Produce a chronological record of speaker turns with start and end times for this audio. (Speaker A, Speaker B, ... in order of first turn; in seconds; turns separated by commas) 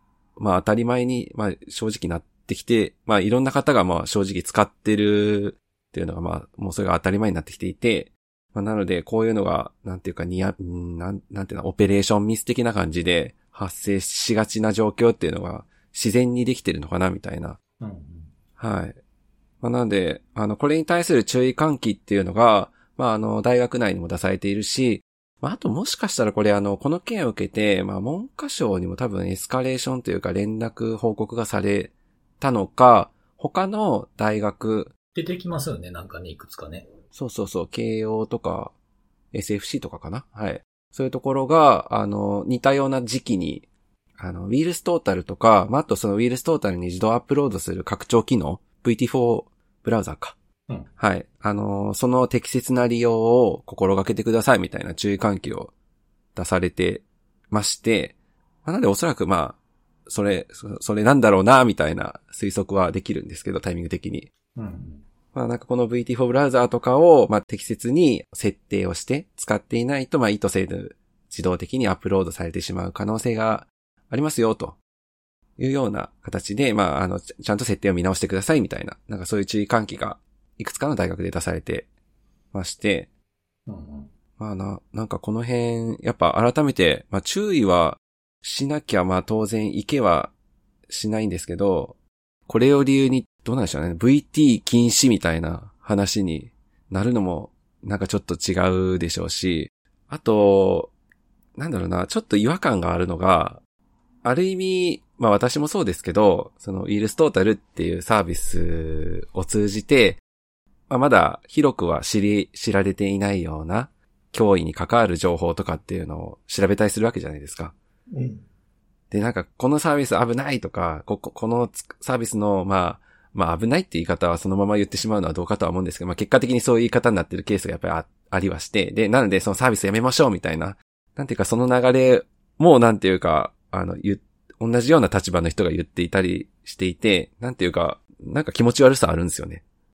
Speaker A: 0.4-17.6, Speaker B: 17.8-18.3, Speaker A: 18.6-19.0, Speaker A: 19.6-34.9, Speaker B: 35.1-36.9, Speaker A: 37.1-38.7, Speaker A: 39.3-43.7, Speaker A: 44.2-50.4, Speaker A: 51.0-55.7, Speaker A: 56.4-58.1, Speaker A: 58.6-64.3, Speaker B: 64.6-65.0, Speaker A: 65.3-74.8, Speaker A: 75.6-81.9, Speaker A: 82.5-83.1, Speaker B: 83.7-84.1, Speaker A: 84.4-90.3, Speaker A: 90.9-92.0, Speaker A: 92.5-100.9, Speaker A: 101.6-103.6, Speaker A: 104.2-110.2, Speaker A: 110.9-117.7, Speaker B: 118.1-118.5, Speaker A: 119.1-139.6